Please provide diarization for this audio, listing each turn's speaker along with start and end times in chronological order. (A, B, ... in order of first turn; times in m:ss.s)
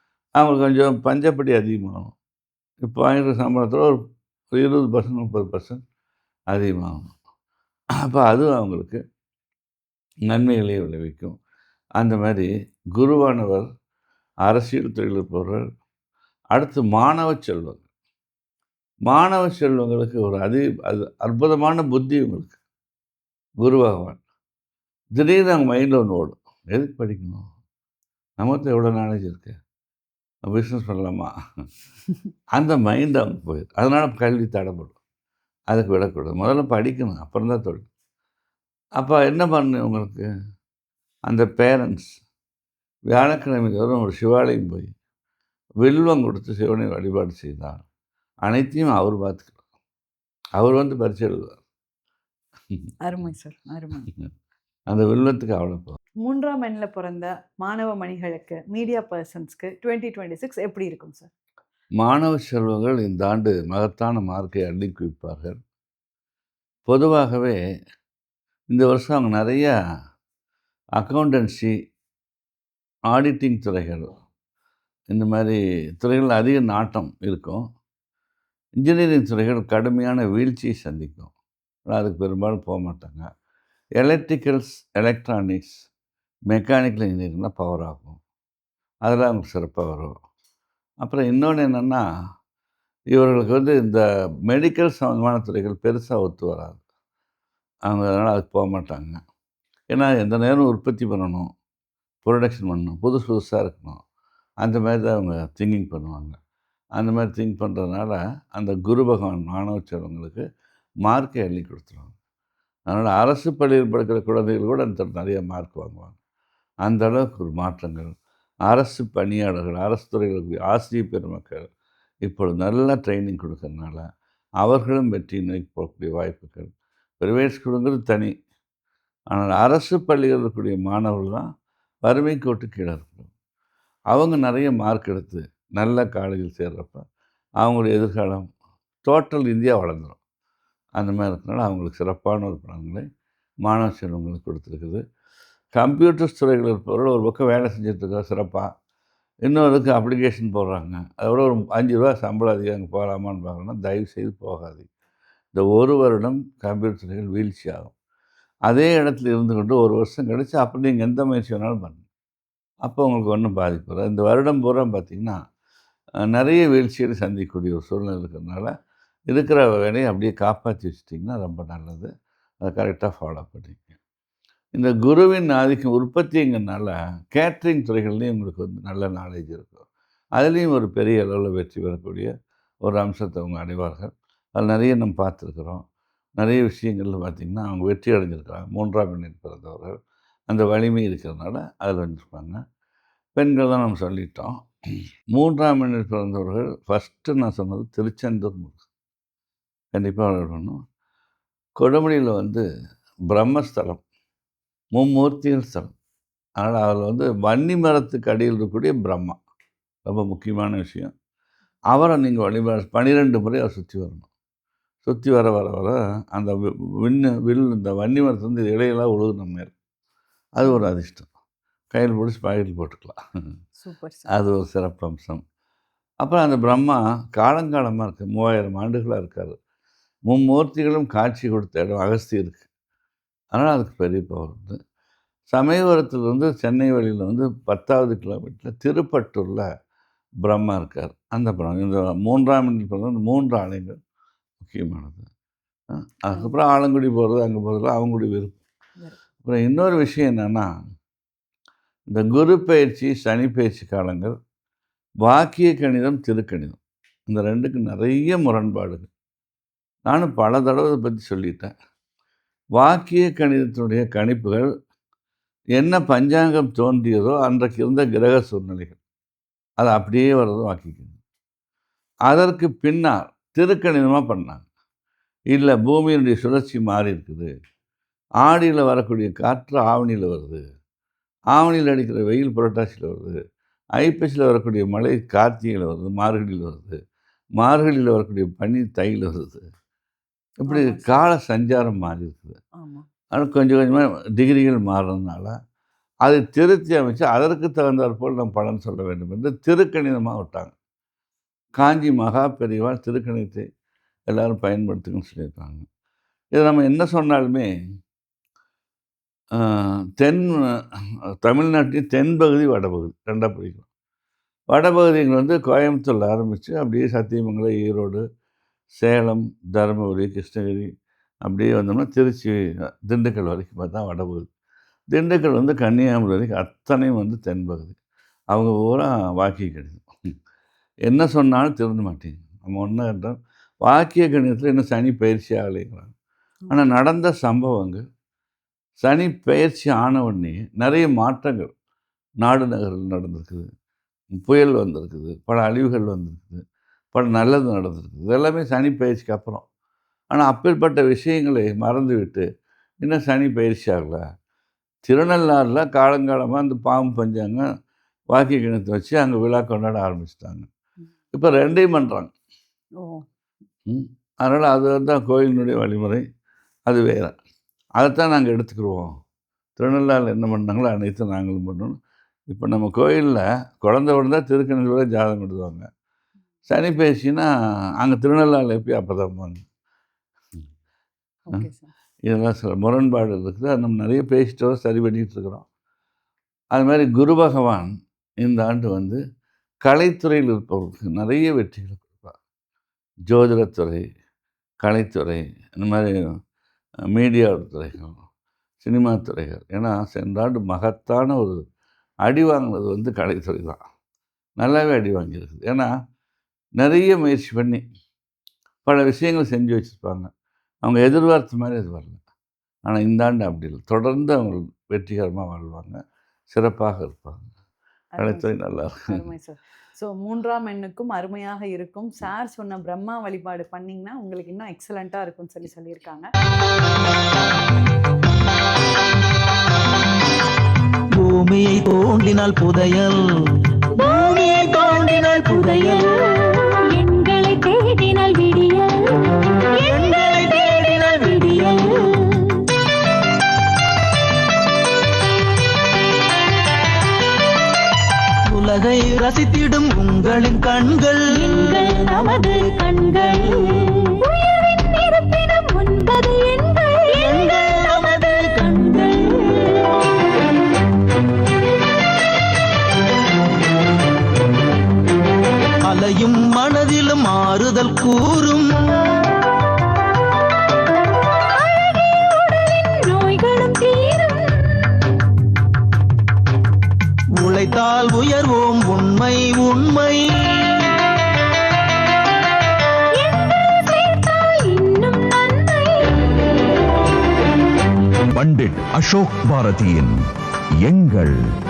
0:00.4-0:02.1 A
0:02.8-0:04.0 A
0:04.5-0:05.8 A
0:06.5-0:07.1 A
0:08.0-0:09.0 A
0:10.3-0:11.4 A
0:12.0-0:13.7 A
0:14.4-0:15.6 A
0:16.5-0:17.8 A
0:19.1-0:22.6 A
0:23.6-0:24.2 A
0:25.2-0:27.4 A
0:28.4-0:29.6 A
0:30.5-0:31.3 A
0:32.6-0:34.9 A
0:35.7-0:37.9 A
0:39.0-0:40.2 A
0:41.3-0:42.1 A
0:43.1-0:44.9 A
0:45.8-0:47.8 A
0:48.4-0:49.6 A
0:50.6-0:51.6 A
0:53.0-0:54.1 B
0:54.9-0:56.0 A
0:56.2-1:01.3 B
1:02.0-1:05.6 A
1:06.9-1:07.6 A
1:08.7-1:09.7 A
1:11.0-1:11.7 A
1:13.1-1:14.2 A
1:15.1-1:17.6 A
1:18.8-1:21.3 A
1:21.9-1:23.3 A
1:24.0-1:25.8 A
1:26.5-1:28.2 A
1:29.0-1:30.1 A
1:31.0-1:32.0 A
1:33.1-1:36.8 A
1:37.9-1:39.2 A
1:39.9-1:41.4 A
1:42.2-1:44.0 A
1:44.6-1:46.4 A
1:47.0-1:50.4 A
1:51.0-1:52.1 A
1:52.9-1:56.2 A
1:56.8-1:58.1 A
1:58.7-2:01.7 A
2:02.2-2:04.0 A
2:04.6-2:08.3 A
2:09.3-2:11.5 A
2:12.0-2:13.3 A
2:14.1-2:17.0 A
2:17.6-2:18.5 A
2:19.0-2:20.2 A
2:21.0-2:23.0 A
2:23.6-2:25.0 A
2:25.7-2:28.7 A
2:29.4-2:34.9 A
2:35.5-2:37.9 A
2:38.7-2:42.0 A
2:42.8-2:45.4 A
2:46.2-2:48.7 A
2:49.3-2:52.1 A
2:52.6-2:54.0 A
2:54.7-2:59.8 A
3:00.4-3:02.3 A
3:02.8-3:05.8 A
3:06.4-3:10.0 A
3:10.5-3:12.6 A
3:13.4-3:14.5 A
3:15.3-3:18.8 A
3:19.9-3:20.8 A
3:21.8-3:22.6 A
3:23.3-3:24.0 A
3:24.9-3:25.9 A
3:26.6-3:29.4 A
3:30.0-3:31.1 A
3:31.9-3:34.3 A
3:35.0-3:39.7 A
3:40.6-3:41.3 A
3:40.6-3:40.9 B
3:41.9-3:43.2 A
3:43.8-3:44.4 B
3:44.3-3:45.4 A
3:46.2-3:49.6 A
3:50.3-3:52.6 A
3:53.5-3:54.8 A
3:55.5-3:59.7 A
4:00.4-4:04.0 A
4:04.6-4:05.3 A
4:05.9-4:08.6 A
4:09.4-4:10.7 A
4:12.1-4:14.3 A
4:15.2-4:19.1 A
4:20.1-4:21.7 A
4:22.8-4:24.7 A
4:25.8-4:29.0 A
4:29.8-4:31.2 A
4:32.3-4:34.6 A
4:35.5-4:37.5 A
4:38.4-4:40.6 A
4:41.5-4:43.4 A
4:44.0-4:47.0 A
4:47.6-4:49.6 A
4:50.6-4:52.6 A
4:50.7-4:51.1 B
4:52.8-4:53.0 B
4:53.3-4:55.5 A
4:56.2-5:00.7 A
5:01.8-5:03.6 A
5:04.3-5:05.8 A
5:06.5-5:07.7 A
5:09.6-5:10.7 A
5:11.4-5:13.8 A
5:14.7-5:18.2 A
5:19.0-5:20.9 A
5:21.4-5:24.5 A
5:25.1-5:28.0 A
5:28.5-5:30.0 A
5:31.1-5:36.1 A
5:36.7-5:38.0 A
5:39.0-5:41.7 A
5:42.4-5:43.7 A
5:44.3-5:46.6 A
5:47.1-5:49.6 A
5:50.3-5:52.4 A
5:53.0-5:54.2 A
5:55.1-5:57.6 A
5:58.3-6:00.6 A
6:01.4-6:02.3 A
6:03.9-6:06.2 A
6:06.9-6:07.3 A
6:08.0-6:09.1 A
6:09.8-6:12.0 A
6:12.5-6:15.9 A
6:16.7-6:17.5 A
6:18.0-6:19.6 A
6:21.4-6:21.9 B
6:22.3-6:25.6 A
6:26.7-6:27.9 A
6:28.4-6:29.2 A
6:29.8-6:32.4 A
6:33.3-6:34.0 A
6:34.8-6:36.1 A
6:37.1-6:38.2 A
6:38.8-6:41.6 A
6:42.2-6:43.8 A
6:44.6-6:45.9 A
6:46.8-6:47.8 A
6:48.8-6:50.3 A
6:50.8-6:52.2 A
6:52.8-6:56.0 A
6:56.5-6:57.4 A
6:58.1-6:58.5 B
6:58.2-6:59.2 A
6:59.1-7:06.3 B
7:11.2-7:16.7 C
7:16.9-7:20.0 D
7:19.8-7:21.8 C
7:21.3-7:22.6 D
7:28.5-7:31.6 C
7:31.3-7:37.3 D
7:37.1-7:38.8 C
7:38.7-7:39.6 D
7:45.8-7:49.2 C
7:52.3-7:54.8 D
7:57.4-8:00.9 C
8:03.1-8:06.3 D
8:08.3-8:10.2 E
8:10.8-8:11.4 E